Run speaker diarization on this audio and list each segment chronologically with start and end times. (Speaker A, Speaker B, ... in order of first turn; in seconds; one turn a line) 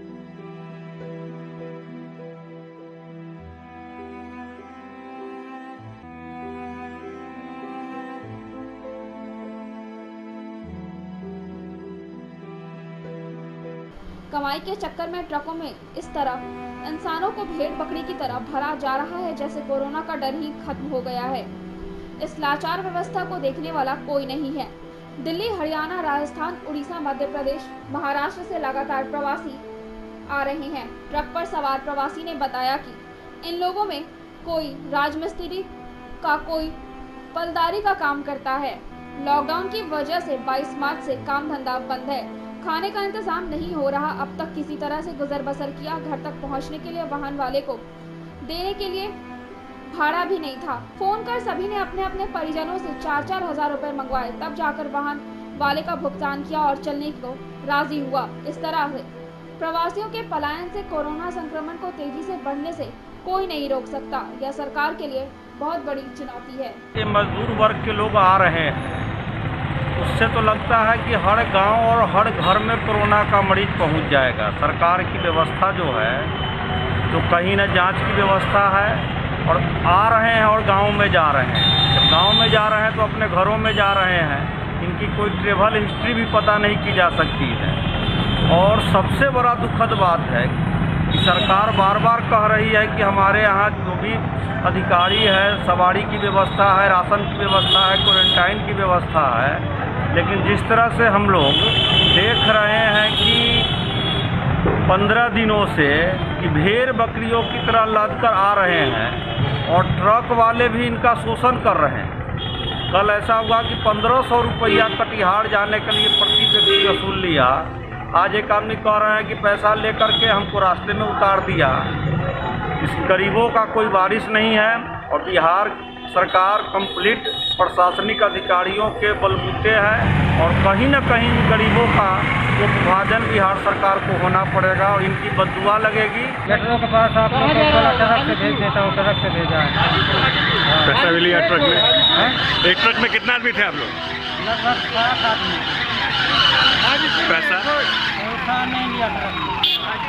Speaker A: 14.3-21.5
Speaker A: 22.2-29.6
Speaker A: 30.3-35.7
Speaker A: 36.2-36.8
Speaker A: 37.3-47.8
Speaker A: 48.4-49.1
Speaker A: 49.9-66.8
Speaker B: 67.0-69.0
Speaker B: 70.0-76.3
Speaker B: 77.1-87.8
Speaker B: 88.5-90.6
Speaker B: 91.1-103.8
Speaker B: 104.9-112.1
Speaker B: 112.9-121.9
Speaker B: 122.8-136.4
Speaker C: 136.6-139.8
Speaker D: 140.8-141.9
Speaker D: 142.5-143.9
Speaker C: 144.4-145.8
Speaker D: 147.2-147.7
Speaker C: 148.2-149.6